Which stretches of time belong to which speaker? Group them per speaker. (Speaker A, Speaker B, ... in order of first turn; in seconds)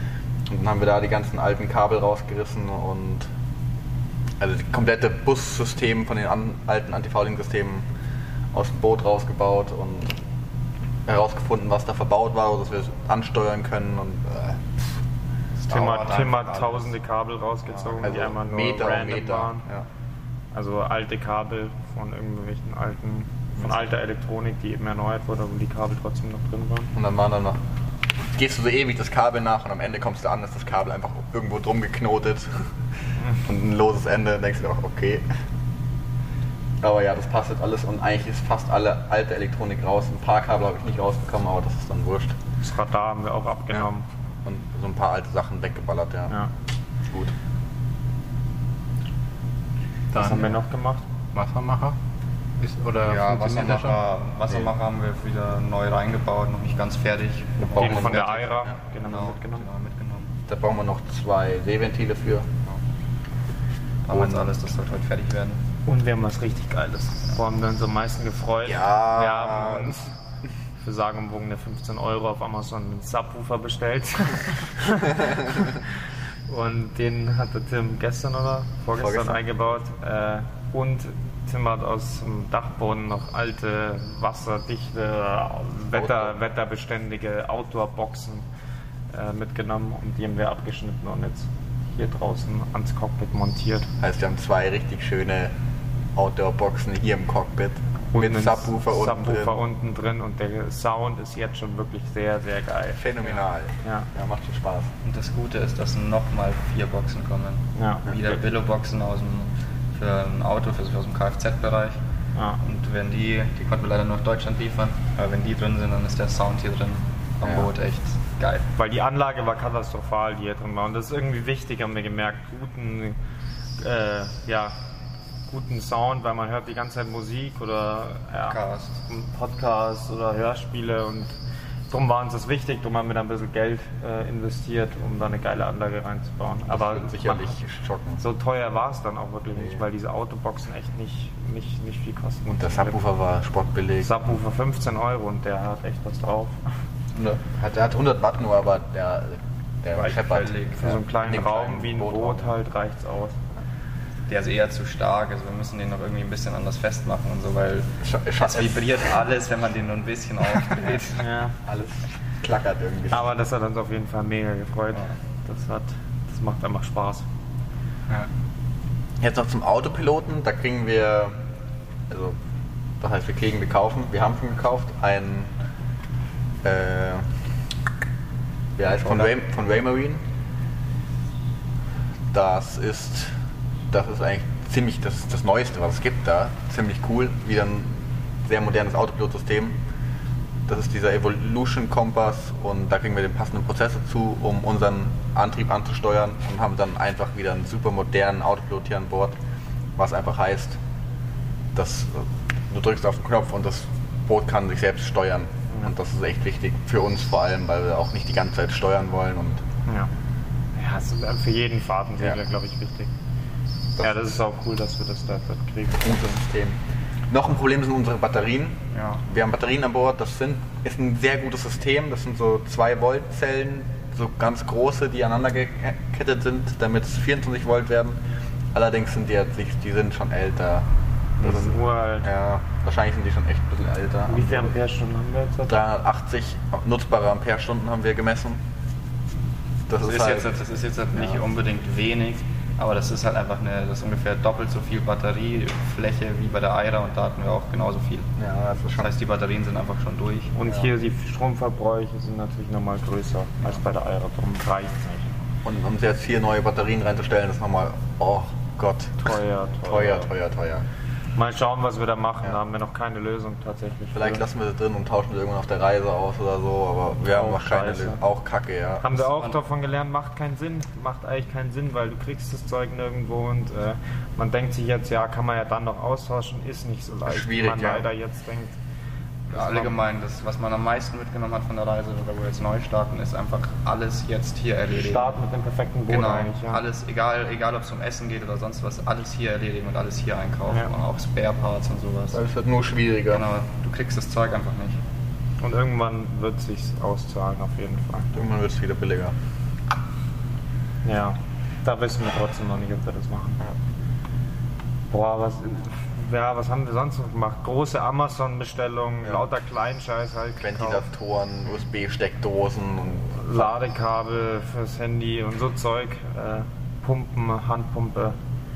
Speaker A: 0.5-3.3, 4.4-7.8, 8.5-10.2, 11.1-15.0, 18.0-19.9, 26.9-27.6, 28.2-32.7, 33.4-35.2, 36.8-42.4, 44.4-46.3, 57.8-58.2, 60.5-62.6, 64.1-64.5, 68.6-70.0, 79.0-79.4, 85.9-86.3, 94.0-95.5, 96.1-99.5, 102.9-104.9, 117.4-117.7, 136.7-138.2, 142.5-144.1, 147.1-152.6, 158.0-158.9, 161.6-163.3, 169.2-171.4, 172.1-172.4, 173.0-175.5, 176.6-177.3, 178.8-180.2, 182.3-183.3, 183.9-189.8, 190.7-199.4, 199.9-200.8, 201.7-209.6, 216.0-216.8, 217.3-228.2, 228.7-230.8, 231.4-234.7, 235.7-238.6, 239.9-240.5, 241.1-241.4, 248.4-249.1, 255.6-259.3, 259.8-260.8, 264.1-269.2, 277.2-278.1, 292.3-293.4, 298.3-299.3, 310.6-313.7
Speaker B: 15.6-16.9, 53.0-58.5, 59.0-60.3, 64.0-65.6, 105.0-112.0, 112.6-118.7, 128.5-129.0, 149.9-150.9, 154.3-161.2, 218.9-219.2, 240.0-248.3, 248.9-250.5, 279.5-285.4, 286.1-292.4, 293.3-295.0
Speaker C: 15.7-19.6, 20.5-26.9, 42.6-44.0, 50.1-51.0, 57.7-59.7, 65.8-70.1, 70.8-75.8, 76.5-88.5, 89.1-93.9, 98.1-103.0, 107.8-108.1, 118.8-123.2, 123.8-124.7, 125.5-131.4, 131.9-137.6, 138.2-142.9, 144.0-146.6, 150.8-153.4, 161.2-161.5, 163.1-167.2, 210.8-213.1, 214.0-216.4, 231.4-232.3, 234.3-235.8, 250.5-255.2, 259.2-260.3, 261.4-264.4, 267.2-268.2, 269.0-278.8, 279.5-279.9, 284.9-286.8, 295.6-298.3, 301.0-303.6, 305.1-311.0, 313.4-318.4
Speaker D: 50.1-50.5, 51.3-52.0, 52.6-54.0